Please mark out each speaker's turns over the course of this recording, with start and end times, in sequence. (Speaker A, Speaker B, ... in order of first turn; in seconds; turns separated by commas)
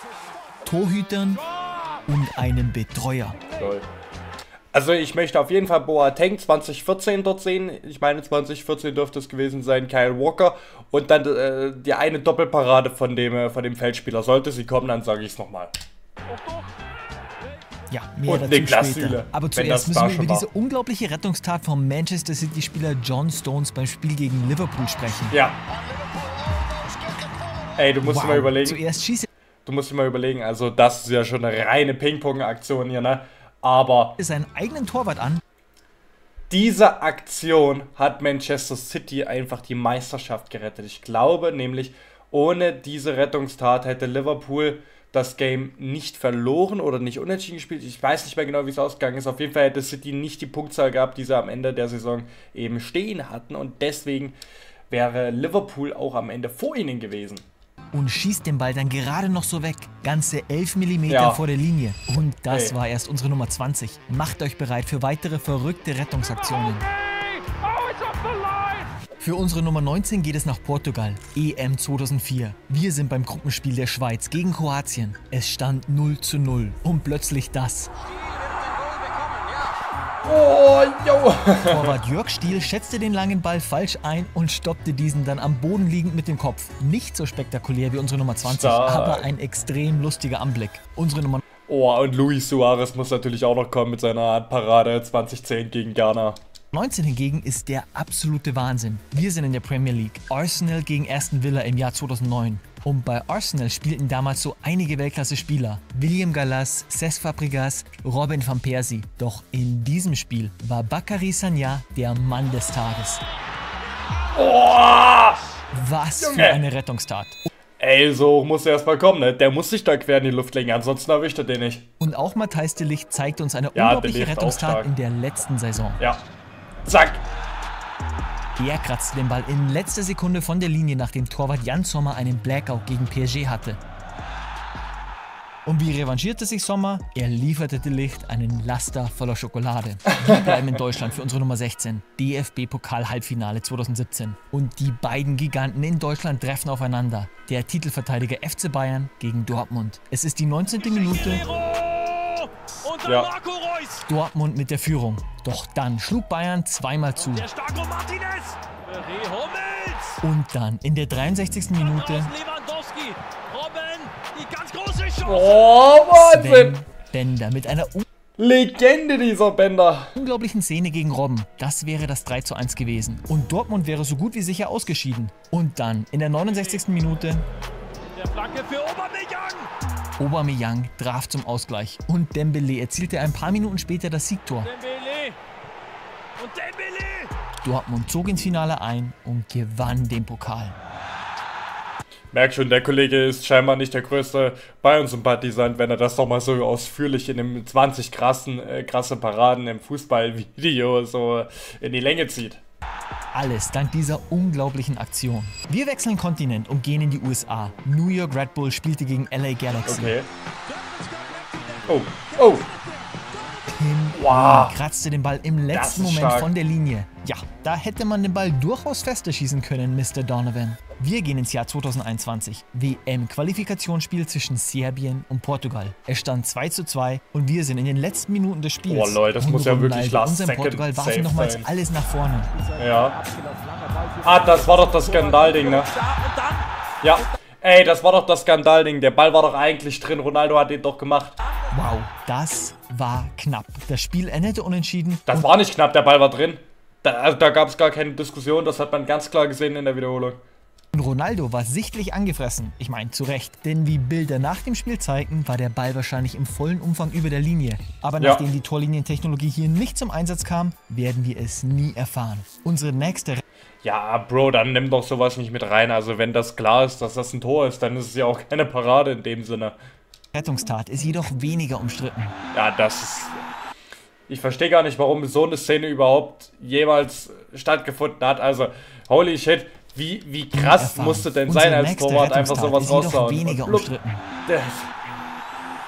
Speaker A: 0.6-1.4, Speaker A: 2.1-3.5, Speaker B: 3.5-3.9, Speaker B: 4.7-15.7, Speaker C: 16.3-16.7, Speaker A: 17.9-25.4, Speaker B: 18.3-20.5, Speaker B: 25.3-25.6, Speaker C: 26.7-27.4, Speaker B: 27.7-28.8, Speaker A: 28.0-29.3, Speaker B: 29.6-34.2, Speaker A: 34.2-35.4, Speaker B: 36.5-54.4, Speaker B: 54.9-57.4, Speaker A: 57.9-66.9, Speaker B: 61.1-61.4, Speaker B: 62.5-62.8, Speaker C: 67.0-68.9, Speaker A: 69.2-77.9, Speaker C: 78.2-79.7, Speaker B: 80.2-82.0, Speaker A: 81.7-91.4, Speaker B: 88.4-89.3, Speaker B: 91.7-96.4, Speaker A: 96.7-113.2, Speaker B: 114.3-115.4, Speaker A: 115.7-117.4, Speaker B: 116.2-116.6, Speaker B: 117.8-121.9, Speaker A: 122.0-126.0, Speaker B: 123.8-124.9, Speaker B: 126.8-127.2, Speaker A: 128.6-133.8, Speaker A: 135.7-151.4, Speaker C: 150.8-154.0, Speaker B: 153.0-153.3, Speaker A: 154.1-157.5, Speaker C: 157.2-160.2, Speaker A: 160.2-162.3, Speaker C: 161.8-165.7, Speaker B: 165.2-166.8, Speaker A: 166.1-168.0, Speaker B: 168.4-170.2, Speaker A: 170.2-177.5, Speaker C: 178.2-179.7, Speaker A: 180.2-184.7, Speaker C: 184.6-185.4, Speaker C: 186.4-187.3, Speaker A: 187.6-190.8, Speaker B: 192.3-202.6, Speaker A: 203.3-210.2, Speaker B: 209.8-210.3, Speaker C: 210.8-211.8, Speaker B: 211.9-212.7, Speaker A: 213.7-232.5, Speaker B: 214.1-214.8, Speaker B: 215.7-216.5, Speaker B: 228.9-231.7, Speaker B: 232.8-233.2, Speaker C: 233.0-236.7, Speaker B: 234.2-235.9, Speaker B: 237.0-241.4, Speaker A: 241.7-245.5, Speaker B: 245.3-250.4, Speaker A: 250.9-263.4, Speaker B: 258.2-258.4, Speaker B: 263.8-269.8, Speaker A: 270.3-272.4, Speaker B: 272.5-273.4, Speaker B: 274.3-283.9, Speaker A: 280.5-284.2, Speaker B: 284.5-284.9